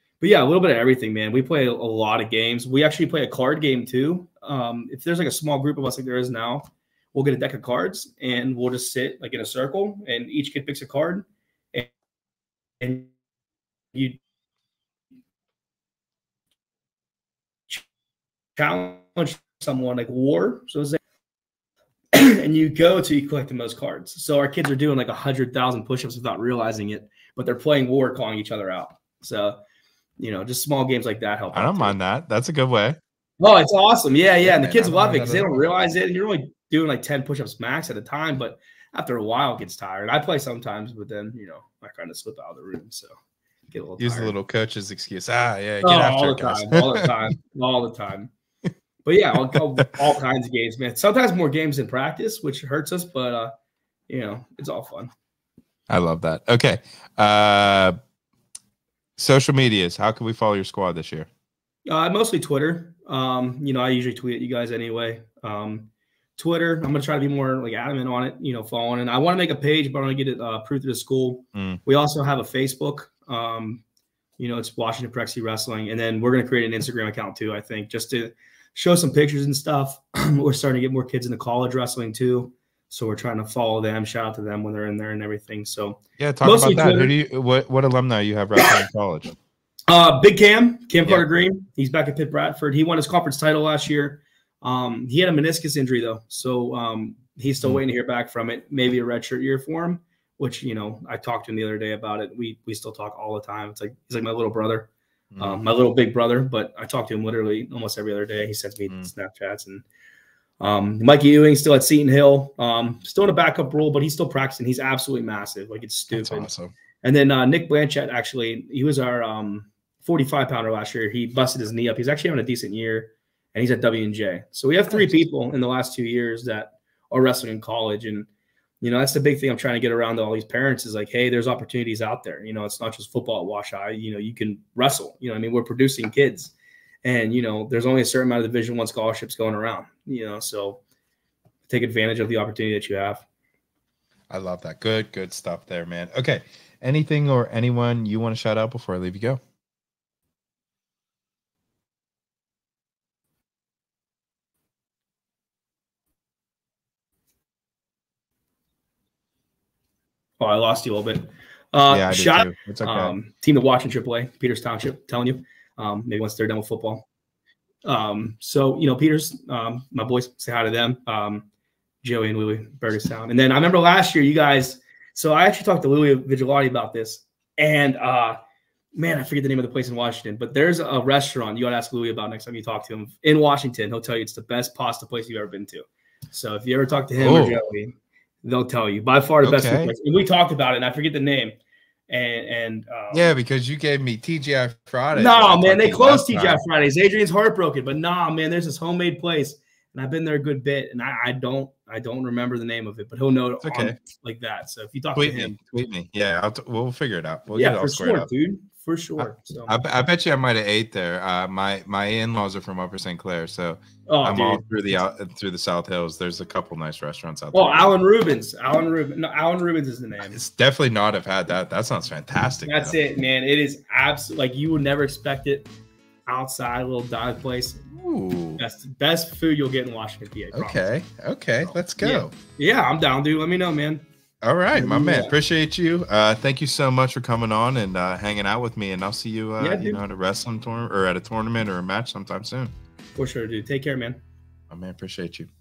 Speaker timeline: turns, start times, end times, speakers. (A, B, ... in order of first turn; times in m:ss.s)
0:00.2-0:11.9 A
0:12.8-0:13.1 A
0:13.9-0:14.2 A
0:18.6-0:21.0 A
0:22.1-0:29.6 A
0:30.2-0:32.0 A
0:31.5-0:33.0 B
0:33.4-0:43.1 A
0:34.4-0:35.7 B
0:43.7-0:44.3 A
0:44.0-0:47.1 B
0:45.8-0:48.3 A
0:49.0-0:53.5 A
0:54.1-0:55.1 A
0:55.9-0:58.0 B
0:59.2-1:01.3 B
1:01.9-1:13.8 A
1:11.5-1:11.8 B
1:14.4-1:27.1 A
1:26.2-1:29.3 B
1:29.9-1:49.8 A
1:45.3-1:45.6 B
1:50.6-1:56.5 A
1:56.1-1:56.7 B
1:57.0-2:08.3 A
2:04.9-2:05.2 B
2:08.8-2:20.8 A
2:21.7-2:23.2 A
2:24.3-2:29.4 B
2:40.4-2:47.0 A
2:41.9-2:43.1 B
2:47.8-2:51.5 A
2:52.0-2:58.4 A
2:58.9-3:11.5 A
3:07.2-3:07.6 B
3:09.4-3:09.9 B
3:12.1-3:13.3 A
3:13.1-3:16.6 B
3:15.1-3:25.6 A
3:23.6-3:24.0 B
3:25.1-3:28.3 B
3:27.5-3:29.8 A
3:29.2-3:37.9 B
3:34.1-3:35.0 A
3:37.5-3:40.4 A
3:40.3-3:43.0 B
3:42.6-3:45.7 A
3:46.3-3:47.8 A
3:47.9-3:48.6 B
3:48.6-3:50.9 A
3:50.5-3:52.3 B
3:51.6-3:54.0 A
3:54.4-4:02.7 B
3:54.7-3:55.3 A
3:59.6-4:00.0 A
4:03.2-4:04.2 A
4:04.7-4:05.5 B